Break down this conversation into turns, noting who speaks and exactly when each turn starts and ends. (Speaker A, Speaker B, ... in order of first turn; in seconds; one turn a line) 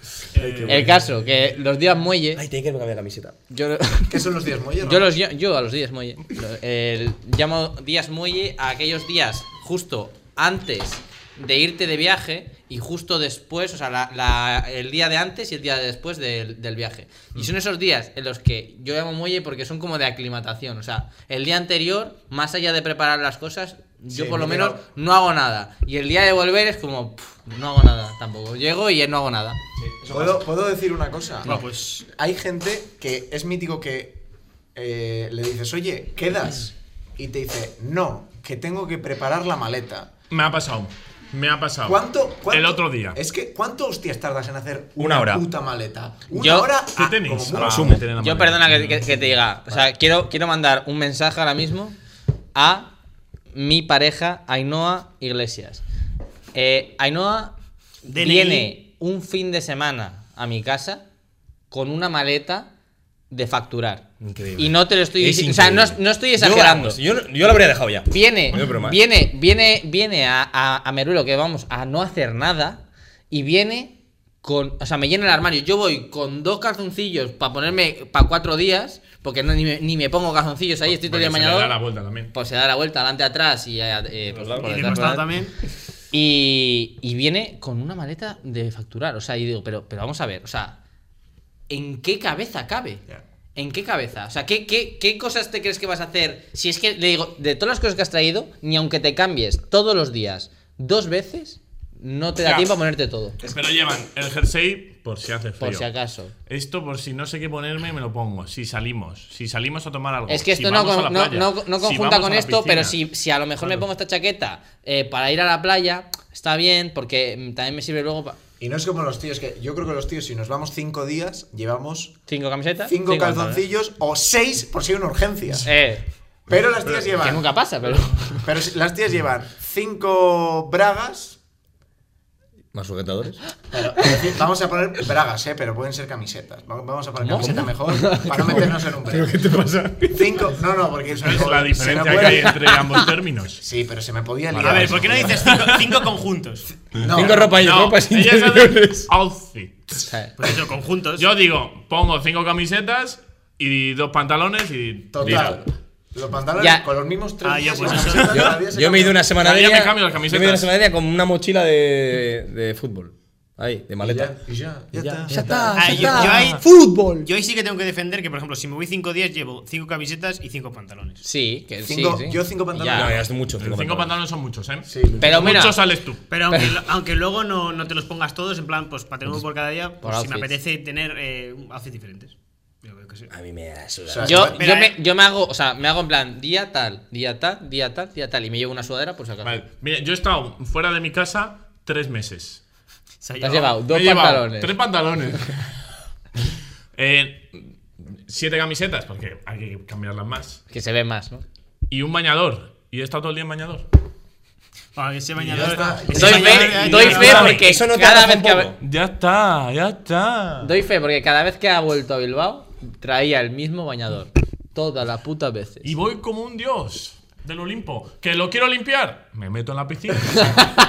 Speaker A: 0.3-1.2
Speaker B: 0.4-0.9
Speaker C: 0.5-0.8
Speaker D: 0.7-2.4
Speaker C: 2.4-3.4
Speaker D: 3.5-4.2
Speaker B: 4.1-5.1
Speaker D: 4.8-29.6
Speaker B: 24.1-24.8
Speaker C: 29.8-30.4
Speaker B: 30.1-34.2
Speaker E: 31.4-32.0
Speaker B: 34.8-40.1
Speaker A: 40.3-43.2
Speaker B: 41.9-48.0
Speaker C: 45.0-45.4
Speaker A: 45.1-45.4
Speaker D: 46.3-46.7
Speaker A: 46.9-49.4
Speaker C: 47.6-48.0
Speaker D: 48.1-52.0
Speaker D: 52.5-52.9
Speaker D: 53.5-55.8
Speaker D: 56.5-57.5
Speaker E: 58.0-58.8
Speaker D: 58.1-61.0
Speaker D: 61.7-62.7
Speaker D: 63.3-67.0
Speaker C: 64.2-69.0
Speaker D: 68.1-81.8
Speaker A: 80.9-82.3
Speaker D: 82.3-85.3
Speaker A: 84.3-85.1
Speaker E: 84.6-85.6
Speaker D: 86.1-90.8
Speaker D: 91.7-93.0
Speaker D: 93.5-103.4
Speaker A: 102.4-102.8
Speaker A: 103.4-105.9
Speaker D: 105.6-106.3
Speaker A: 106.5-113.0
Speaker D: 110.3-118.4
Speaker A: 113.6-113.9
Speaker B: 118.6-122.2
Speaker D: 122.3-123.6
Speaker B: 122.9-125.7
Speaker D: 125.6-126.0
Speaker B: 126.5-127.5
Speaker A: 126.9-127.2
Speaker D: 127.2-128.4
Speaker A: 128.1-128.4
Speaker B: 128.2-131.4
Speaker C: 132.7-133.4
Speaker B: 133.7-139.3
Speaker D: 137.2-138.7
Speaker C: 137.4-137.7
Speaker C: 138.3-140.2
Speaker B: 140.1-142.7
Speaker A: 141.2-143.6
Speaker B: 143.6-145.7
Speaker E: 144.6-146.7
Speaker A: 144.6-144.9
Speaker B: 147.0-147.6
Speaker C: 147.1-149.1
Speaker A: 147.3-150.1
Speaker D: 150.0-150.3
Speaker E: 150.4-151.3
Speaker A: 151.2-155.6
Speaker B: 155.1-159.3
Speaker D: 156.6-156.8
Speaker E: 157.4-158.6
Speaker C: 158.3-164.3
Speaker A: 159.4-160.7
Speaker B: 164.0-166.3
Speaker D: 165.0-167.2
Speaker C: 165.3-166.6
Speaker E: 165.7-166.7
Speaker E: 167.2-171.2
Speaker D: 171.2-173.1
Speaker B: 171.9-173.3
Speaker C: 172.9-174.2
Speaker A: 173.6-176.2
Speaker B: 174.9-175.7
Speaker D: 175.2-175.8
Speaker E: 176.3-183.3
Speaker D: 176.5-176.8
Speaker D: 180.0-180.5
Speaker C: 183.3-184.4
Speaker B: 184.1-184.6
Speaker D: 184.2-189.6
Speaker E: 184.6-185.0
Speaker A: 189.4-192.6
Speaker E: 193.2-193.8
Speaker D: 193.4-194.8
Speaker A: 193.8-195.7
Speaker A: 196.9-200.6
Speaker D: 200.7-201.4
Speaker A: 201.9-203.9
Speaker E: 204.9-207.6
Speaker A: 205.4-207.6
Speaker B: 205.4-206.8
Speaker D: 206.1-208.7
Speaker C: 206.1-208.8
Speaker A: 208.8-210.7
Speaker D: 210.6-215.9
Speaker A: 215.8-220.6
Speaker B: 220.4-220.7